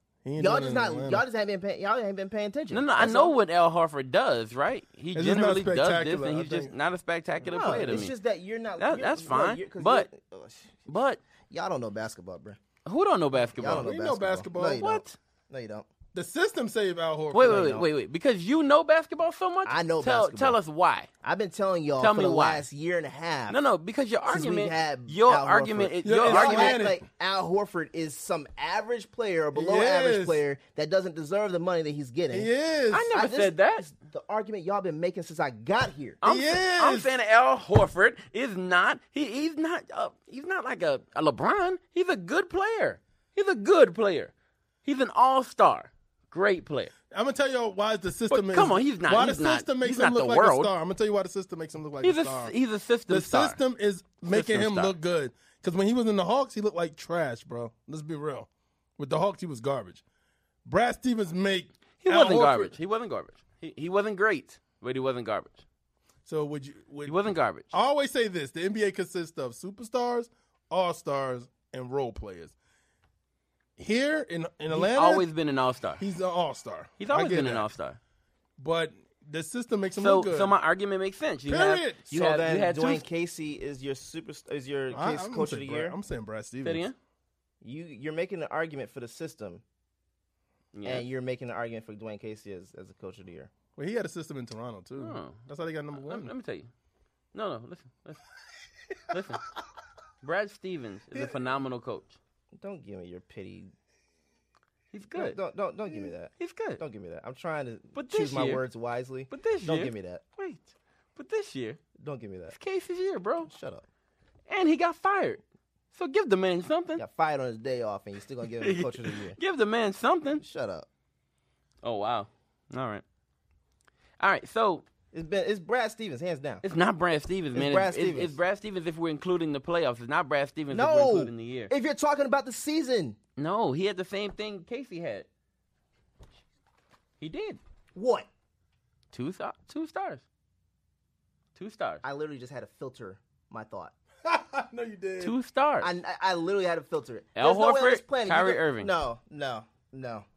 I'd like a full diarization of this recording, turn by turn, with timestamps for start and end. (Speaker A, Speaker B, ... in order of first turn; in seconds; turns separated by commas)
Speaker A: 0.2-1.2, Speaker B: 0.4-3.4, Speaker C: 2.7-8.1, Speaker A: 5.1-6.7, Speaker A: 7.5-8.1, Speaker B: 7.5-10.9, Speaker C: 8.8-10.1, Speaker C: 10.9-11.2, Speaker B: 11.5-12.6, Speaker C: 12.8-13.9, Speaker B: 13.6-15.9, Speaker A: 13.6-14.9, Speaker C: 14.8-15.2, Speaker A: 16.1-17.8, Speaker C: 17.3-21.1, Speaker B: 17.4-17.9, Speaker B: 19.6-20.6, Speaker B: 21.2-23.6, Speaker C: 22.0-22.6, Speaker C: 23.5-26.8, Speaker B: 24.3-32.5, Speaker A: 26.0-27.0, Speaker A: 29.5-30.4, Speaker A: 32.3-33.1, Speaker C: 32.9-33.8, Speaker B: 33.1-36.2, Speaker C: 36.2-44.3, Speaker A: 36.2-37.1, Speaker C: 44.8-46.9, Speaker A: 47.1-52.5, Speaker C: 48.3-50.7, Speaker C: 52.0-53.6, Speaker A: 53.1-60.0, Speaker C: 54.3-54.9, Speaker A: 60.6-62.7, Speaker C: 62.0-65.6, Speaker A: 66.2-67.2, Speaker C: 67.0-67.7, Speaker A: 67.7-72.5, Speaker A: 73.8-75.2, Speaker C: 74.7-76.0, Speaker A: 76.0-77.7, Speaker C: 77.0-78.0, Speaker A: 78.6-80.5, Speaker C: 80.0-83.0, Speaker A: 81.5-82.0, Speaker B: 82.1-86.0, Speaker A: 84.9-86.9, Speaker C: 86.6-87.0, Speaker B: 87.6-89.6, Speaker C: 90.7-91.0, Speaker B: 90.8-93.5, Speaker A: 93.8-96.3, Speaker C: 95.0-95.4, Speaker C: 95.9-96.7, Speaker C: 97.3-98.2, Speaker C: 99.1-99.5, Speaker C: 100.2-102.2, Speaker B: 102.5-103.7, Speaker C: 104.9-105.4, Speaker B: 105.1-110.2, Speaker C: 106.0-106.8, Speaker C: 107.9-108.6, Speaker C: 109.3-111.8, Speaker B: 112.0-112.5, Speaker C: 112.5-113.5, Speaker B: 113.4-113.8, Speaker C: 114.5-115.4, Speaker C: 115.9-117.0, Speaker B: 117.0-119.4, Speaker C: 118.6-120.4, Speaker B: 120.4-120.9, Speaker C: 121.8-123.0, Speaker C: 124.2-124.8, Speaker B: 125.1-126.6, Speaker C: 126.6-131.7, Speaker B: 127.5-128.4, Speaker B: 130.7-133.2, Speaker C: 133.4-135.3, Speaker C: 137.2-137.6, Speaker B: 137.9-138.3, Speaker C: 139.1-140.2, Speaker C: 141.6-142.0, Speaker B: 142.0-143.9, Speaker A: 144.2-145.3, Speaker C: 145.2-145.9, Speaker B: 145.8-150.2, Speaker C: 147.4-148.9